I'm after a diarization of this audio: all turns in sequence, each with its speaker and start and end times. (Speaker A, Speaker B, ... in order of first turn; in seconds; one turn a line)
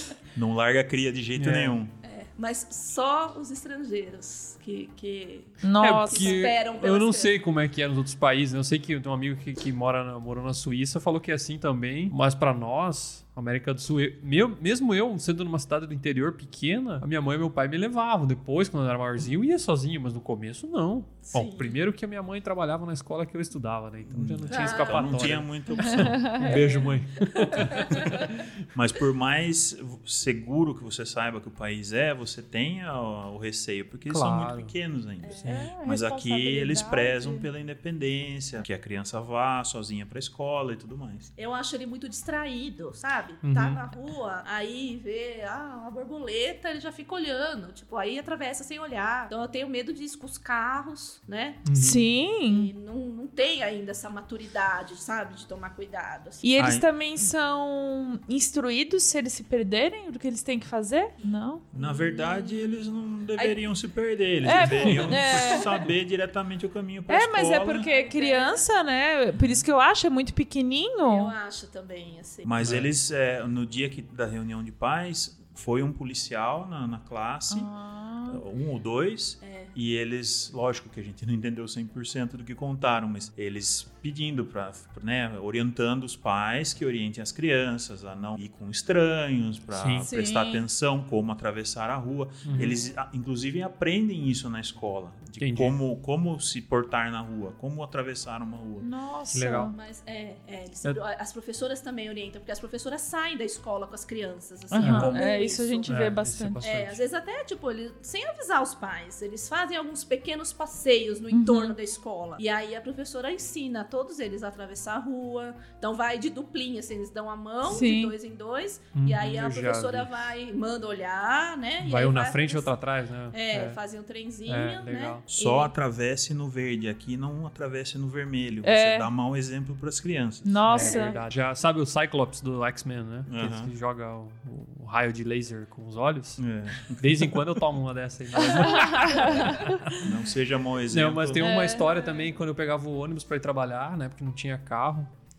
Speaker A: 0.3-1.9
Speaker B: 1.4-1.8
Speaker C: 2.0-7.4
Speaker D: 5.6-6.4
Speaker B: 5.8-28.4
Speaker C: 21.2-21.8
Speaker A: 24.0-26.3
Speaker C: 24.5-25.3
Speaker D: 25.8-26.9
Speaker C: 26.4-28.1
Speaker A: 28.7-41.3
Speaker B: 34.1-34.7
Speaker C: 35.2-35.6
Speaker B: 35.4-35.7
Speaker D: 35.4-37.5
Speaker C: 41.4-51.6
Speaker B: 43.4-43.8
Speaker B: 51.6-52.0
Speaker D: 51.7-52.7
Speaker C: 52.5-56.5
Speaker D: 56.4-61.6
Speaker A: 56.6-56.9
Speaker A: 61.7-67.9
Speaker C: 61.8-62.5
Speaker C: 63.4-63.6
Speaker D: 64.4-65.7
Speaker C: 64.5-65.7
Speaker B: 64.8-65.2
Speaker D: 67.1-71.3
Speaker C: 67.7-68.7
Speaker C: 71.0-72.6
Speaker A: 72.4-77.7
Speaker B: 72.6-72.9
Speaker D: 77.5-78.4
Speaker A: 78.3-98.9
Speaker C: 79.4-79.7
Speaker B: 89.7-90.1
Speaker D: 90.0-90.6
Speaker B: 92.4-92.8
Speaker B: 95.4-95.8
Speaker D: 98.8-99.7
Speaker B: 99.3-99.7
Speaker C: 99.7-106.0
Speaker D: 104.7-106.6
Speaker B: 104.8-105.2
Speaker B: 105.9-107.0
Speaker C: 106.6-122.7
Speaker D: 111.3-111.8
Speaker D: 117.6-118.1
Speaker B: 118.9-120.1
Speaker B: 121.8-123.8
Speaker C: 123.3-125.7
Speaker B: 124.5-125.2
Speaker A: 125.3-131.0
Speaker D: 128.6-129.1
Speaker D: 130.4-131.2
Speaker B: 130.7-136.4
Speaker C: 130.8-131.1
Speaker A: 133.3-133.7
Speaker A: 136.4-137.7
Speaker B: 137.0-140.1
Speaker D: 138.4-140.0
Speaker A: 139.1-141.6
Speaker B: 140.9-145.1
Speaker D: 141.4-142.3